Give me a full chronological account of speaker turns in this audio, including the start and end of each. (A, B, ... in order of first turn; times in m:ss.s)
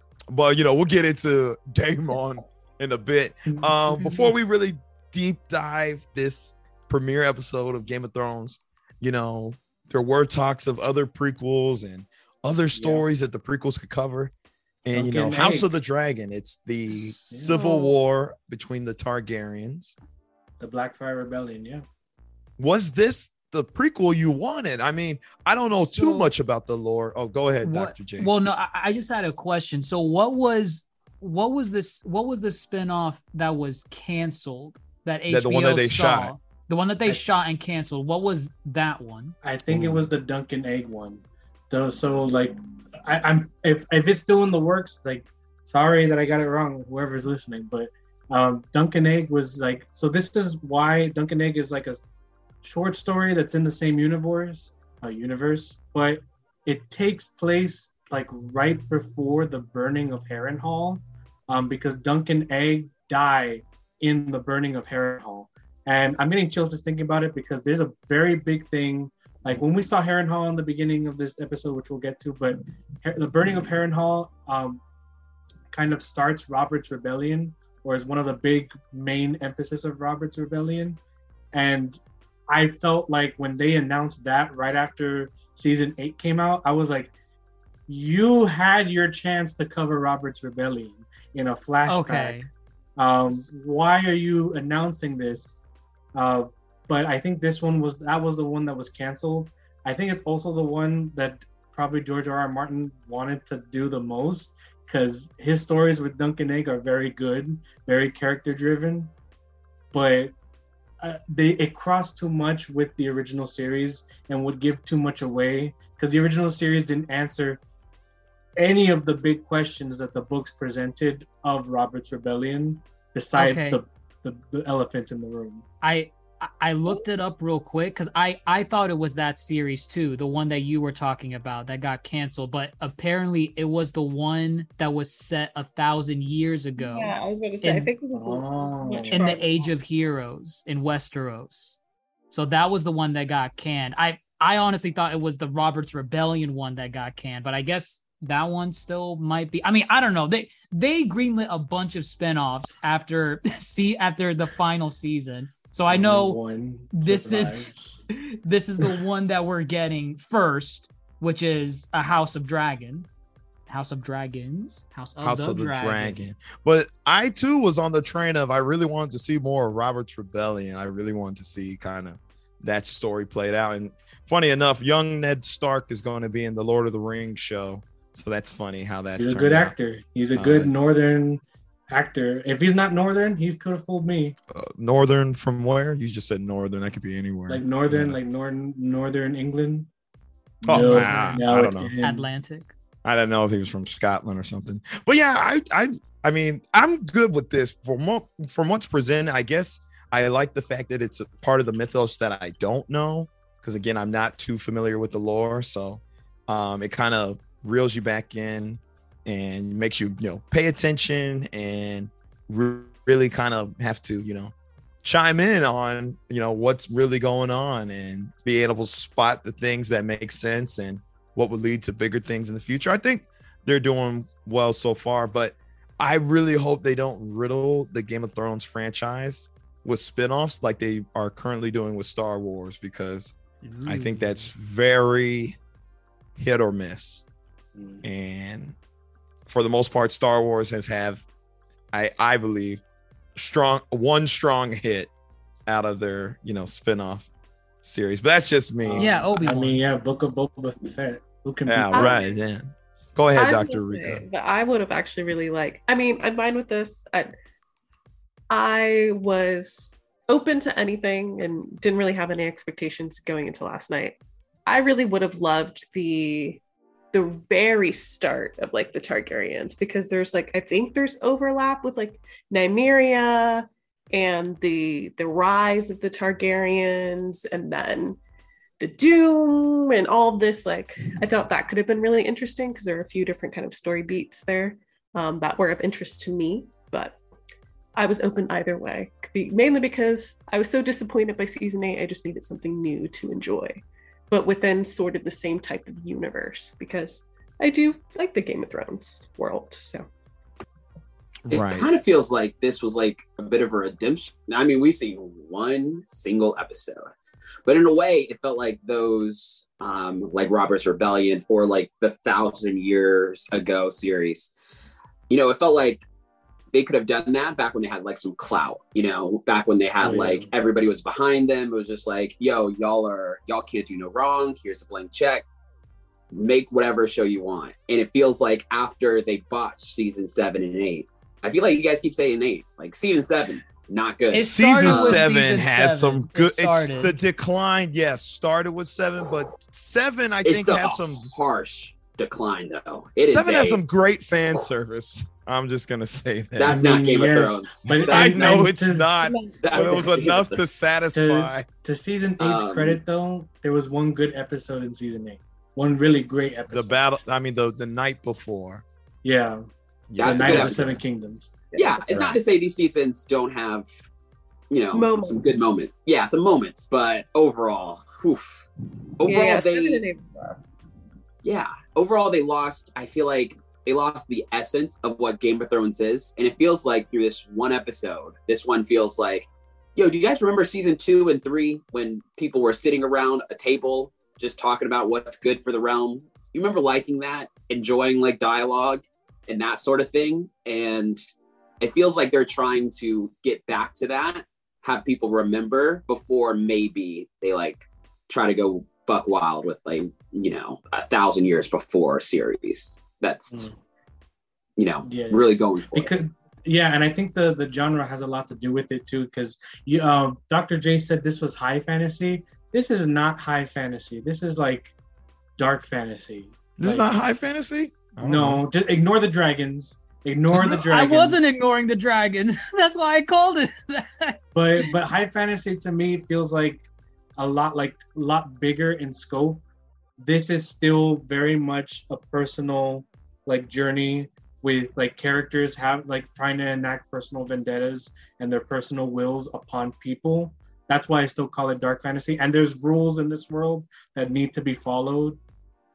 0:00.3-0:14.3 A
0:03.5-0:04.3 B
0:12.8-0:13.1 B
0:14.8-0:20.0 A
0:14.9-0:15.7 B
0:17.0-0:17.9 C
0:17.3-0:17.6 B
0:20.6-0:21.8 B
0:22.6-0:28.5 A
0:25.7-0:26.3 C
0:27.6-0:39.4 C
0:35.3-0:36.3 A
0:39.4-0:52.0 B
0:39.7-0:40.0 A
0:52.6-1:14.8 B
1:15.7-1:21.0 B
1:21.5-1:27.1 B
1:27.9-1:35.6 B
1:31.9-1:32.5 C
1:36.1-1:49.1 B
1:49.9-1:50.4 B
1:51.0-1:57.6 B
1:58.6-2:05.7 B
2:03.4-2:03.8 C
2:05.8-2:17.9 C
2:16.8-2:19.7 D
2:18.1-2:19.4 B
2:19.1-2:21.8 C
2:22.3-2:36.4 C
2:35.9-2:38.0 B
2:36.9-2:37.6 C
2:38.1-2:43.1 C
2:43.7-2:46.2 C
2:45.2-2:59.7 A
2:59.2-3:04.4 B
3:00.3-3:00.7 A
3:04.5-3:08.2 A
3:07.5-3:09.9 B
3:10.6-3:12.3 B
3:10.6-3:11.9 A
3:10.8-3:11.4 C
3:12.0-3:12.7 C
3:13.0-3:53.4 A
3:53.6-3:54.5 B
3:53.9-3:55.6 A
3:56.4-3:57.2 A
3:57.8-3:58.0 B
3:58.0-3:58.8 A
3:59.5-4:01.2 A
4:01.9-4:02.8 A
4:03.4-4:05.1 A
4:05.7-4:07.3 A
4:07.8-4:09.2 A
4:08.8-4:12.2 B
4:09.0-4:09.8 C
4:11.7-4:14.2 A
4:11.9-4:12.3 D
4:13.4-4:17.3 D
4:18.5-4:26.6 D
4:27.1-4:38.2 D
4:38.8-4:47.2 D
4:48.0-5:00.1 D
5:01.5-5:01.9 A
5:01.5-5:07.1 E
5:07.6-5:14.5 E
5:15.3-5:16.0 E
5:16.7-5:25.4 E
5:20.0-5:20.5 B
5:26.3-5:35.3 E
5:34.3-5:37.2 C
5:34.4-5:41.3 A
5:40.4-5:43.8 E
5:43.3-5:46.8 A
5:46.6-5:48.7 E
5:46.7-5:49.1 B
5:47.9-5:51.7 A
5:49.2-5:50.4 D
5:49.6-5:50.6 E
5:51.1-5:57.0 B
5:52.4-5:53.0 E
5:56.7-5:58.8 A
5:59.2-5:59.7 B
6:00.1-6:01.0 A
6:00.2-6:00.9 E
6:00.2-6:01.6 B
6:01.7-6:03.9 E
6:01.8-6:02.2 D
6:02.1-6:02.4 A
6:04.7-6:10.0 E
6:04.9-6:05.6 D
6:09.2-6:10.6 D
6:11.4-6:31.2 E
6:31.8-6:43.7 E
6:43.5-6:43.8 B
6:44.8-6:46.1 E
6:45.0-6:54.9 B
6:55.6-6:57.1 B
6:56.8-6:58.6 A
6:58.2-7:01.6 B
7:00.5-7:04.9 C
7:04.5-7:06.8 B
7:07.4-7:09.6 B
7:10.2-7:25.4 B